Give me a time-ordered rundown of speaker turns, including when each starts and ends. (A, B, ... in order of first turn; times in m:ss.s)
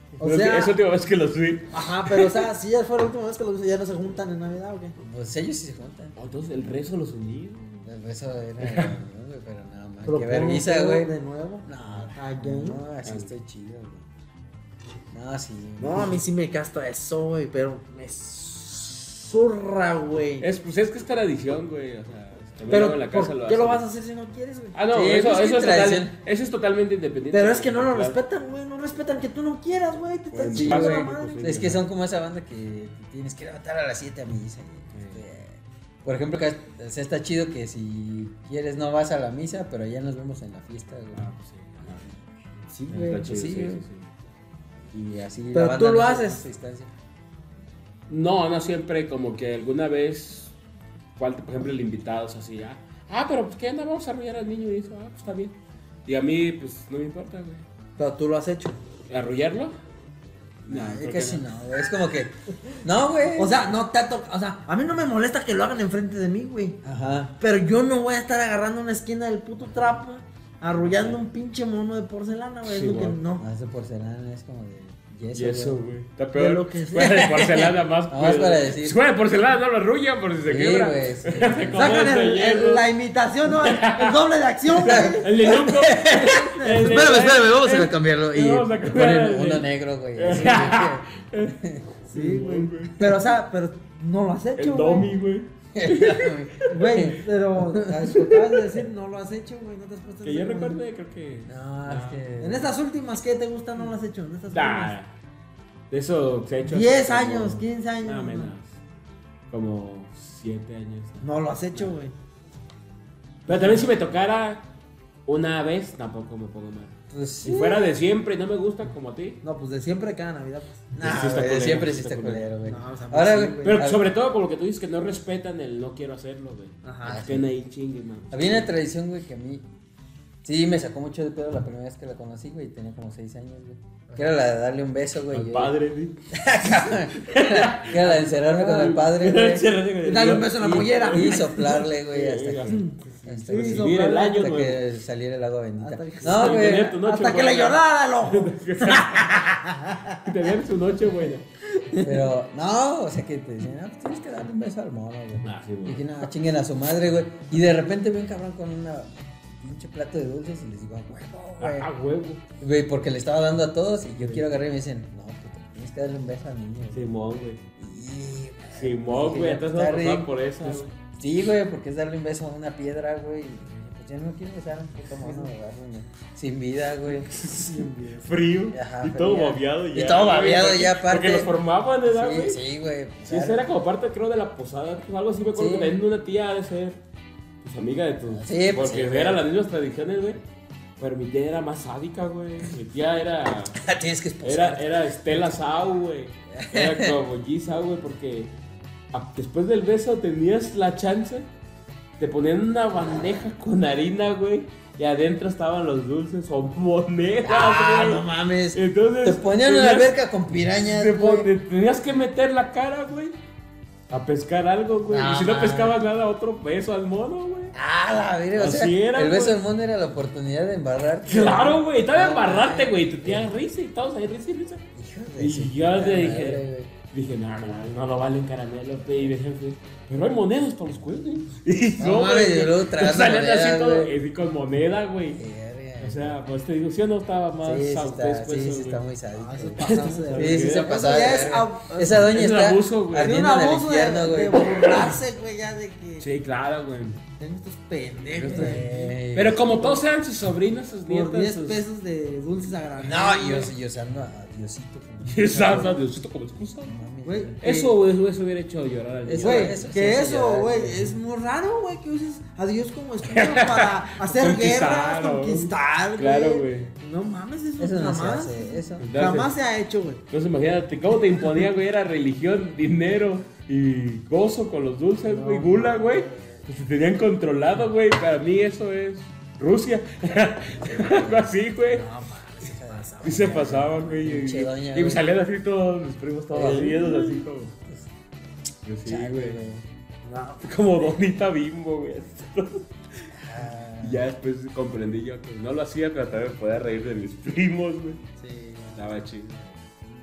0:00.2-0:02.5 A
0:00.2-0:00.8 B
0:01.7-0:04.9 B
0:05.0-0:06.1 C
0:06.1-0:07.9 A
0:07.8-0:11.1 C
0:08.6-0:08.9 A
0:10.1-0:12.8 B
0:11.6-0:14.1 C
0:13.0-0:13.3 A
0:15.1-0:16.2 C
0:15.8-0:20.5 B
0:20.4-0:23.8 A
0:22.7-0:24.8 B
0:24.7-0:28.2 A
0:24.9-0:26.1 C
0:27.3-0:31.5 B
0:30.3-0:31.8 A
0:30.5-0:41.3 C
0:34.9-0:35.2 A
0:41.1-0:42.1 A
0:41.8-0:42.2 C
0:42.8-0:43.8 C
0:42.9-0:44.1 A
0:44.9-0:46.9 C
0:45.5-0:46.4 B
0:48.1-0:50.5 A
0:51.2-0:55.5 A
0:56.1-0:57.6 A
0:58.0-0:58.8 B
0:59.1-0:59.7 A
1:00.6-1:01.4 A
1:00.7-1:03.6 C
1:03.4-1:06.8 B
1:06.8-1:07.3 C
1:07.4-1:13.4 B
1:10.8-1:11.2 A
1:12.6-1:13.2 A
1:13.4-1:15.8 C
1:15.3-1:22.8 A
1:16.3-1:17.2 B
1:17.2-1:19.0 C
1:20.4-1:21.8 C
1:21.7-1:25.3 B
1:23.5-1:24.2 A
1:24.8-1:33.1 A
1:24.8-1:31.9 C
1:26.1-1:27.1 B
1:32.1-1:35.1 B
1:34.6-1:37.0 A
1:35.8-1:38.5 C
1:36.7-1:40.8 B
1:38.2-1:38.6 A
1:40.2-1:42.2 A
1:41.5-1:42.7 C
1:42.4-1:44.9 B
1:44.5-1:45.1 A
1:45.9-1:48.7 A
1:46.6-1:48.5 B
1:49.5-1:51.9 A
1:51.2-1:52.1 B
1:53.5-1:54.6 A
1:53.5-1:53.9 B
1:55.2-1:59.4 A
1:57.1-1:57.9 C
1:59.4-2:01.0 B
2:01.0-2:04.0 C
2:01.0-2:02.5 A
2:02.6-2:03.9 B
2:03.6-2:08.7 A
2:06.8-2:07.3 B
2:07.0-2:07.5 C
2:08.3-2:09.6 C
2:10.4-2:15.7 C
2:15.3-2:16.2 A
2:16.3-2:19.8 C
2:17.1-2:21.5 A
2:20.0-2:21.9 B
2:20.5-2:27.0 C
2:22.1-2:24.8 A
2:22.6-2:24.4 B
2:25.8-2:30.4 B
2:26.2-2:29.6 A
2:30.2-2:31.5 A
2:31.9-2:32.3 B
2:32.0-2:41.9 C
2:35.4-2:36.1 A
2:41.6-2:42.4 A
2:42.6-2:47.1 C
2:46.9-2:47.6 A
2:47.8-2:57.3 C
2:48.7-2:50.9 A
2:55.0-2:55.5 A
2:57.2-3:02.6 A
2:57.5-2:58.2 B
2:58.7-3:01.5 C
3:02.1-3:03.6 C
3:03.2-3:07.0 A
3:05.5-3:06.0 C
3:07.6-3:10.4 A
3:08.3-3:09.4 C
3:11.0-3:13.8 A
3:13.8-3:15.5 C
3:14.4-3:18.5 A
3:16.5-3:17.2 C
3:19.1-3:21.5 A
3:22.2-3:30.2 A
3:27.4-3:31.5 C
3:30.8-3:33.4 A
3:34.1-3:37.7 A
3:35.1-3:36.0 C
3:37.7-3:43.5 C
3:38.5-3:39.6 A
3:41.2-3:44.8 A
3:44.9-3:46.9 C
3:45.4-3:55.4 A
3:52.0-3:54.1 C
3:55.3-3:56.4 C
3:56.0-3:59.0 A
3:57.6-3:59.8 C
3:59.3-4:02.4 B
3:59.8-4:01.0 A
4:00.3-4:04.6 C
4:02.1-4:03.4 A
4:03.1-4:06.3 B
4:04.6-4:05.2 A
4:06.2-4:07.2 A
4:07.4-4:09.2 B
4:08.3-4:11.8 A
4:08.5-4:09.6 C
4:09.7-4:10.0 B
4:11.0-4:13.7 B
4:13.0-4:16.0 C
4:15.3-4:16.9 A
4:16.8-4:17.6 C
4:17.2-4:17.9 B
4:17.6-4:19.9 A
4:19.2-4:21.1 C
4:19.4-4:30.2 B
4:23.2-4:26.9 A
4:27.8-4:29.1 C
4:29.0-4:29.5 A
4:30.3-4:42.0 A
4:35.3-4:36.6 C
4:40.8-4:41.6 C
4:41.9-4:43.8 B
4:42.8-4:45.2 C
4:43.2-4:47.7 A
4:46.5-4:47.4 C
4:48.8-4:49.6 A
4:49.0-4:49.8 C
4:50.2-4:51.3 B
4:50.6-4:53.2 A
4:53.3-4:54.3 C
4:54.0-4:58.2 A
4:58.4-4:58.8 B
4:58.9-4:59.8 A